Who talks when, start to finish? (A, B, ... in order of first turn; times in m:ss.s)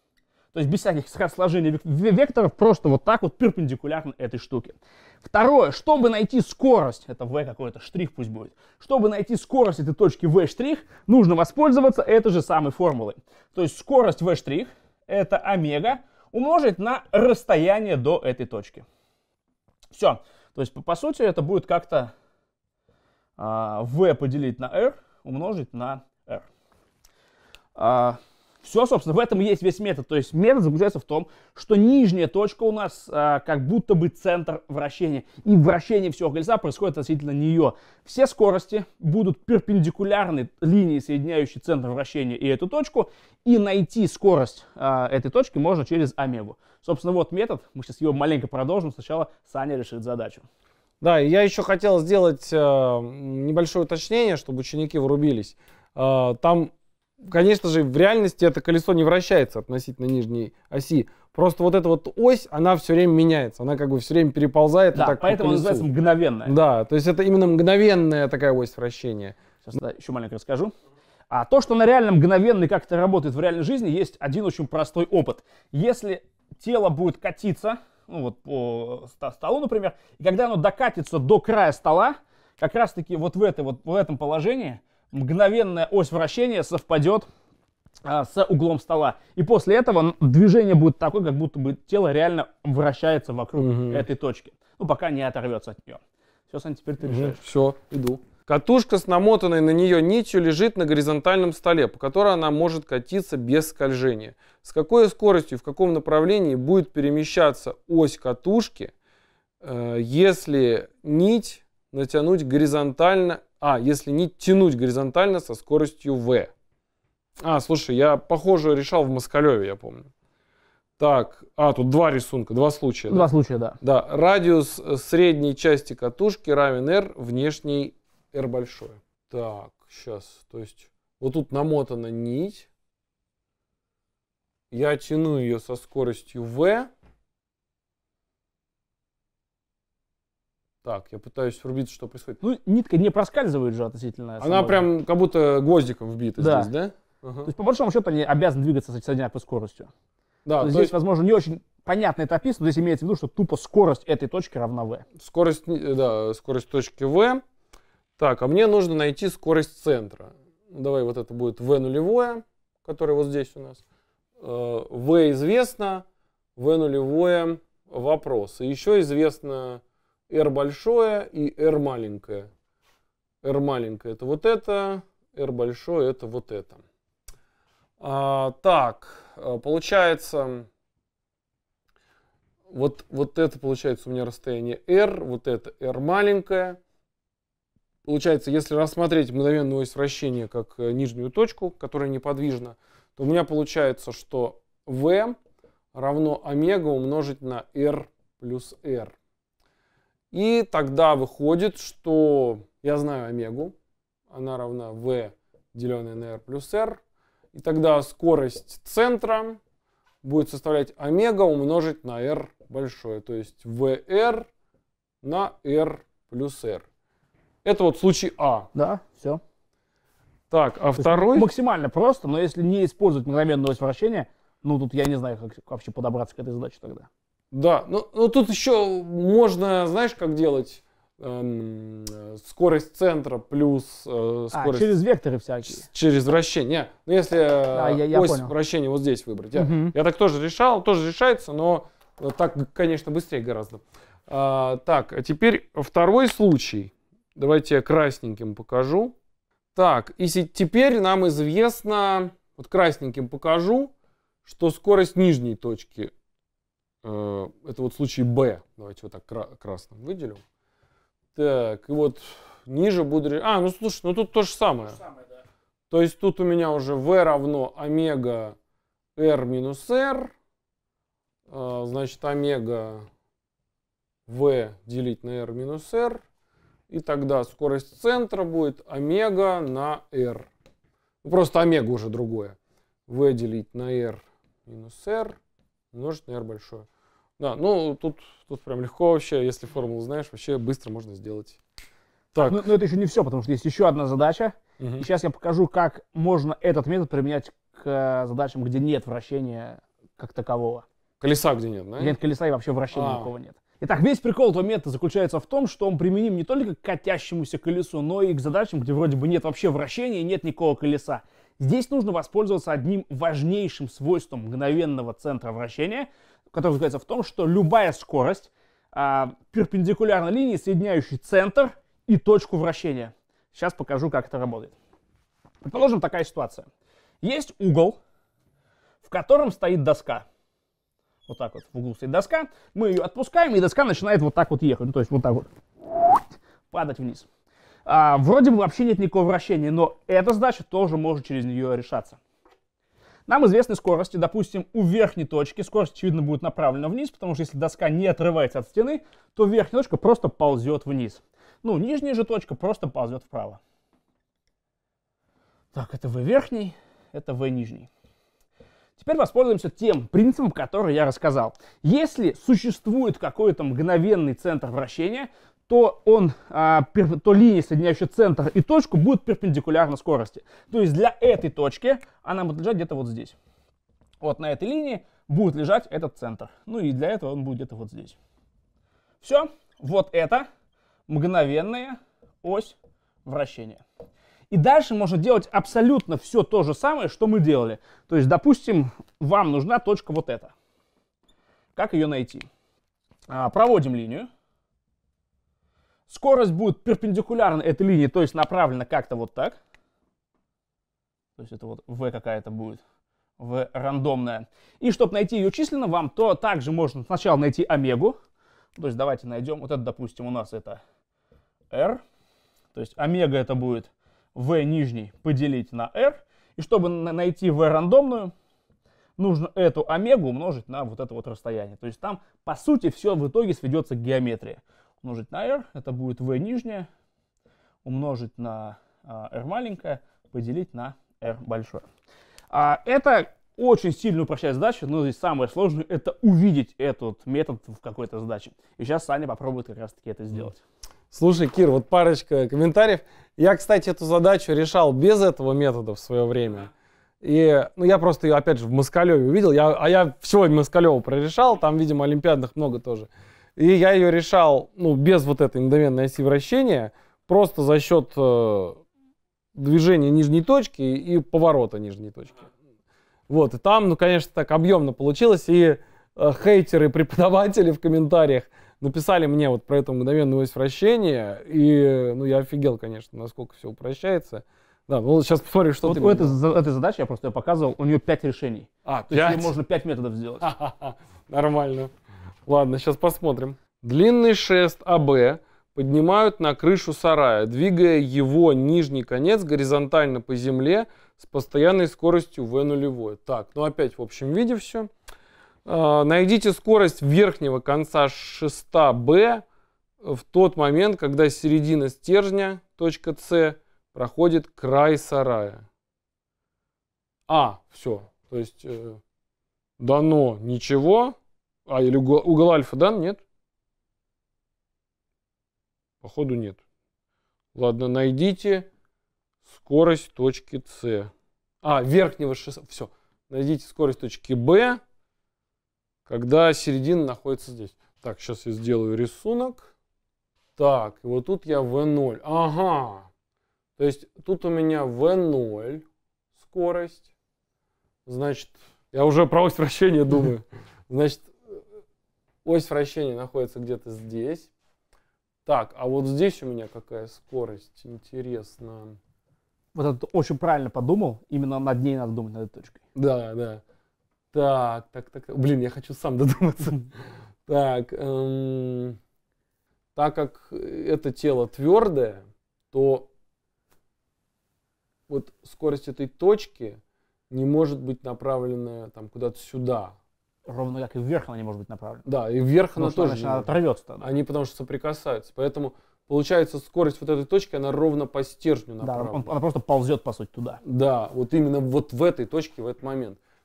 0:00.5-0:18.9 A
0:19.9-0:22.1 A
0:23.4-0:26.4 A
0:27.8-0:50.4 A
0:51.0-1:05.9 B
1:04.9-1:06.6 A
1:06.4-1:09.4 B
1:09.6-1:10.7 A
1:11.3-1:27.3 A
1:28.0-1:37.4 A
1:33.6-1:34.1 B
1:37.0-1:48.9 B
1:49.6-1:56.5 B
1:57.4-2:00.1 B
2:01.0-2:03.3 B
2:03.1-2:03.8 A
2:03.8-2:12.7 B
2:14.7-2:16.9 B
2:20.8-2:22.4 B
2:22.4-2:24.9 A
2:24.4-2:27.5 B
2:26.4-2:26.7 A
2:27.4-2:29.9 A
2:30.4-2:30.9 B
2:30.6-2:35.0 A
2:35.2-2:37.4 B
2:38.2-2:43.8 B
2:44.4-2:46.0 B
2:46.6-2:52.5 B
2:53.4-2:56.8 B
2:58.0-3:00.7 B
3:02.7-3:06.8 B
3:08.0-3:15.4 B
3:15.9-3:19.1 B
3:20.3-3:23.7 B
3:24.3-3:27.0 B
3:27.5-3:29.6 B
3:30.2-3:34.5 B
3:35.2-3:36.8 B
3:37.6-3:38.7 B
3:38.8-3:39.4 A
3:40.5-3:41.5 B
3:41.0-3:47.1 A
3:47.5-3:55.0 B
3:54.5-3:55.8 A
3:55.7-4:09.1 B
3:57.7-3:58.5 A
3:59.6-3:59.9 A
4:09.7-4:13.9 B
4:14.4-4:16.1 B
4:17.0-4:20.4 B
4:21.3-4:25.0 B
4:25.9-4:28.6 B
4:29.2-4:30.3 B
4:31.5-4:33.0 B
4:34.3-4:36.2 B
4:36.9-4:40.5 B
4:41.2-4:45.4 B
4:45.9-4:46.9 B
4:47.4-4:51.6 B
4:52.3-4:52.6 B
4:52.4-5:00.8 A
4:54.8-4:55.1 B
5:01.2-5:02.2 B
5:02.0-5:24.7 A
5:02.9-5:03.3 B
5:25.6-5:26.7 A
5:27.2-5:28.0 A
5:29.0-5:30.2 A
5:31.3-5:37.3 A
5:37.9-5:42.2 A
5:43.3-5:53.6 A
5:55.7-5:57.9 A
5:59.0-6:13.4 A
6:14.2-6:18.2 A
6:19.2-6:20.5 A
6:21.1-6:23.8 A
6:24.5-6:30.5 A
6:31.8-6:32.5 A
6:33.3-6:34.3 A
6:36.1-6:39.6 A
6:41.4-6:42.8 A
6:43.4-6:48.2 A
6:48.8-6:50.8 A
6:51.7-6:52.0 A
6:52.7-6:58.3 A
6:59.2-7:06.9 A
7:07.8-7:11.8 A
7:12.5-7:20.6 A
7:21.1-7:38.8 B
7:39.5-7:42.5 B
7:43.3-7:56.4 B
7:55.8-8:00.5 A
7:58.9-7:59.6 B
8:00.4-8:01.9 B
8:02.5-8:14.9 B
8:15.6-8:19.4 B
8:20.0-8:25.6 B
8:27.3-8:29.0 B
8:29.8-8:31.1 B
8:31.7-8:33.2 B
8:36.0-8:36.6 B
8:37.5-8:38.7 B
8:39.4-8:41.1 B
8:41.6-8:44.8 B
8:46.0-8:49.7 B
8:50.6-8:53.1 B
8:53.8-8:55.8 B
8:56.4-8:57.1 B
8:58.0-9:01.6 B
9:02.4-9:04.5 B
9:05.5-9:09.0 B
9:09.8-9:12.8 A
9:13.0-9:13.6 B
9:14.3-9:16.9 B
9:17.5-9:19.0 B
9:20.0-9:23.1 B
9:25.1-9:26.8 B
9:27.3-9:30.0 B
9:30.5-9:32.0 A
9:32.0-9:39.3 B
9:32.8-9:34.1 A
9:38.8-9:40.6 A
9:40.6-9:43.2 B